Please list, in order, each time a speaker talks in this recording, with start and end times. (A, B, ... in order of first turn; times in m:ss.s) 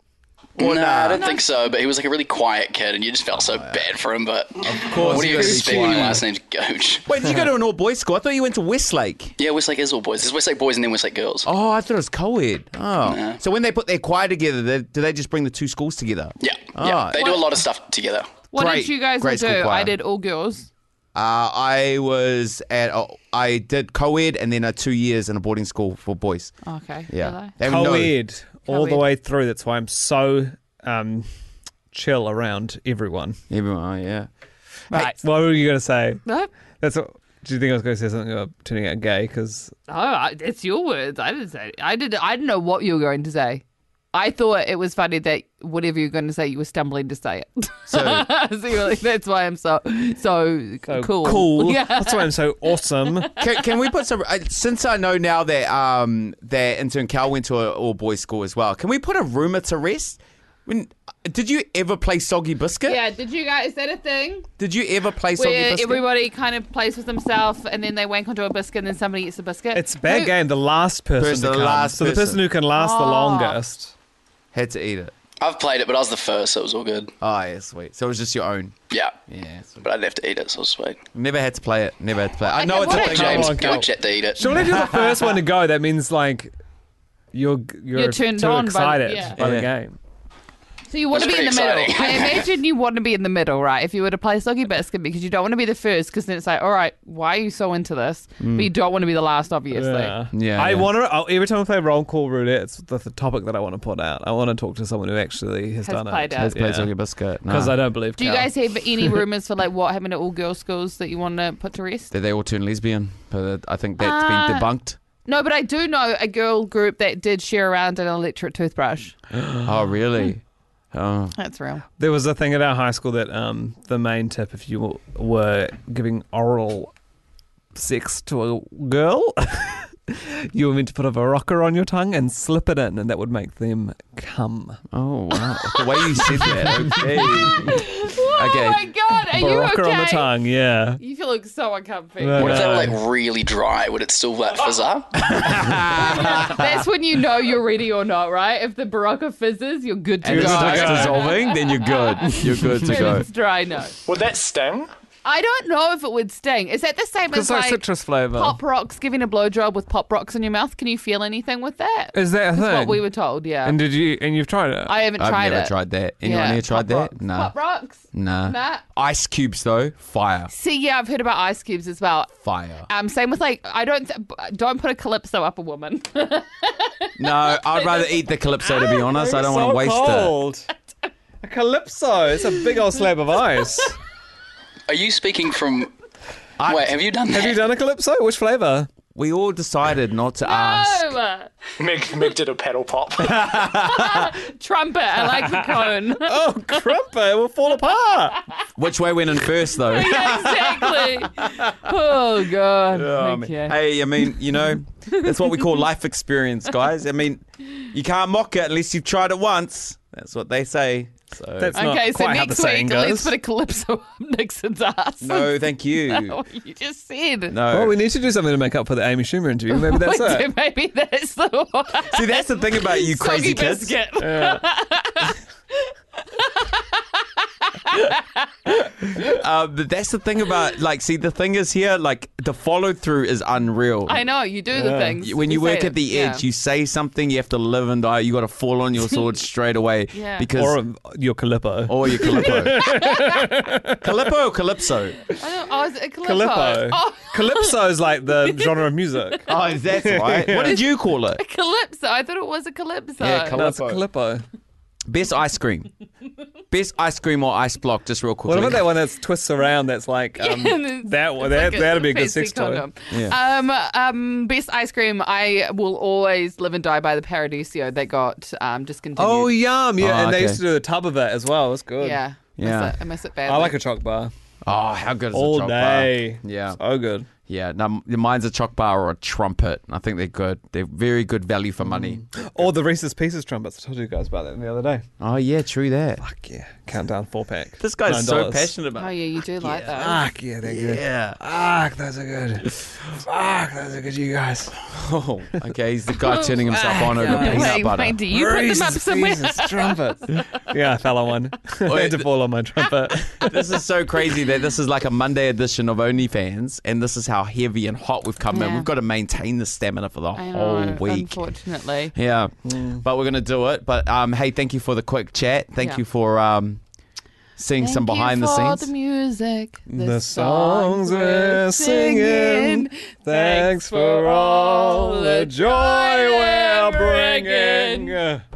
0:00.6-0:07.0 A
0:00.6-0:01.3 B
0:01.2-0:01.5 C
0:03.3-0:03.9 B
0:04.6-0:06.3 B
0:05.0-0:05.8 D
0:07.1-0:09.4 B
0:09.4-0:11.5 A
0:11.4-0:17.2 B
0:13.0-0:13.4 A
0:16.4-0:18.3 A
0:17.2-0:17.6 C
0:18.5-0:20.7 C
0:18.5-0:20.0 B
0:21.2-0:26.5 B
0:26.6-0:27.5 C
0:27.1-0:28.2 B
0:27.6-0:31.3 D
0:28.7-0:29.1 C
0:31.9-0:33.4 D
0:33.5-0:34.3 B
0:34.9-0:35.2 C
0:35.0-0:36.2 D
0:36.3-0:36.5 C
0:36.8-0:39.8 D
0:39.9-0:52.4 C
0:47.9-0:48.3 B
0:50.9-0:53.3 D
0:53.4-1:03.0 B
1:02.9-1:04.5 C
1:04.6-1:06.0 B
1:05.4-1:10.4 C
1:09.7-1:13.9 D
1:11.2-1:12.4 B
1:12.7-1:13.6 C
1:14.5-1:15.1 B
1:15.4-1:17.1 A
1:17.2-1:18.7 B
1:19.3-1:19.9 B
1:19.8-1:21.0 A
1:21.1-1:23.6 B
1:22.5-1:23.8 C
1:22.8-1:26.5 D
1:22.9-1:24.6 A
1:24.6-1:25.4 B
1:27.3-1:30.0 D
1:28.0-1:29.4 C
1:29.4-1:29.7 B
1:30.9-1:40.2 C
1:31.1-1:32.4 A
1:38.4-1:38.7 B
1:39.7-1:46.9 D
1:40.3-1:40.9 B
1:45.8-1:46.5 C
1:46.4-1:47.8 B
1:47.5-1:48.5 D
1:48.2-1:52.1 C
1:52.1-1:55.0 B
1:54.0-1:54.7 C
1:55.2-1:59.2 C
1:59.6-2:00.4 B
2:00.9-2:01.4 B
2:01.4-2:01.8 C
2:02.0-2:06.9 D
2:07.8-2:14.8 D
2:14.9-2:18.8 B
2:15.7-2:20.3 C
2:19.4-2:21.0 D
2:21.0-2:22.6 C
2:22.2-2:23.0 D
2:22.4-2:25.2 A
2:25.2-2:26.6 B
2:25.9-2:34.0 C
2:30.2-2:31.2 D
2:30.2-2:33.3 B
2:34.1-2:34.9 E
2:35.2-2:43.8 C
2:37.3-2:38.6 D
2:42.1-2:43.1 D
2:43.6-2:45.0 D
2:44.9-2:48.8 C
2:45.2-2:47.6 B
2:48.1-2:50.5 B
2:50.5-2:52.3 C
2:52.4-2:52.9 B
2:52.9-2:58.2 C
2:57.2-3:00.4 B
2:59.0-3:00.7 D
3:01.4-3:04.0 D
3:02.5-3:03.1 C
3:04.9-3:05.9 A
3:06.6-3:07.0 B
3:06.7-3:07.6 A
3:07.3-3:08.9 D
3:09.2-3:11.2 B
3:10.4-3:11.5 C
3:11.8-3:13.4 E
3:13.5-3:16.4 C
3:15.3-3:18.4 D
3:18.8-3:20.6 B
3:19.9-3:23.8 C
3:22.9-3:31.8 B
3:25.1-3:25.7 C
3:31.6-3:33.3 D
3:31.7-3:37.6 C
3:35.2-3:36.4 B
3:37.5-3:38.0 B
3:37.7-3:40.5 D
3:39.7-3:48.5 C
3:42.0-3:44.0 B
3:44.2-3:44.6 D
3:49.2-3:54.2 B
3:54.1-3:56.4 C
3:54.7-3:55.2 D
3:55.2-4:00.8 B
4:00.1-4:00.5 C
4:00.6-4:04.1 D
4:01.9-4:02.8 B
4:02.4-4:03.5 C
4:04.0-4:05.2 B
4:05.4-4:09.4 C
4:06.2-4:09.4 D
4:09.5-4:11.4 B
4:10.0-4:10.8 D
4:11.3-4:13.6 C
4:13.2-4:14.0 B
4:13.6-4:14.4 D
4:15.1-4:15.9 B
4:16.7-4:18.9 B
4:18.5-4:22.9 D
4:20.4-4:29.6 C
4:23.1-4:23.4 B
4:29.2-4:32.2 D
4:30.0-4:30.6 B
4:32.0-4:33.8 C
4:32.6-4:33.0 B
4:33.4-4:34.3 D
4:34.6-4:36.8 B
4:35.3-4:37.3 D
4:37.5-4:42.7 B
4:41.8-4:45.0 D
4:45.2-4:46.2 B
4:46.2-4:48.7 D
4:47.8-4:49.9 B
4:49.0-4:50.3 C
4:50.0-4:54.9 D
4:50.6-4:51.4 B
4:54.9-4:58.2 B
4:56.3-5:00.4 C
4:57.0-5:03.6 D
5:01.9-5:02.3 B
5:03.4-5:11.4 B
5:08.5-5:08.9 C
5:10.4-5:12.1 C
5:12.1-5:16.8 B
5:12.7-5:13.0 D
5:17.6-5:18.9 B
5:17.8-5:28.2 C
5:19.9-5:28.4 D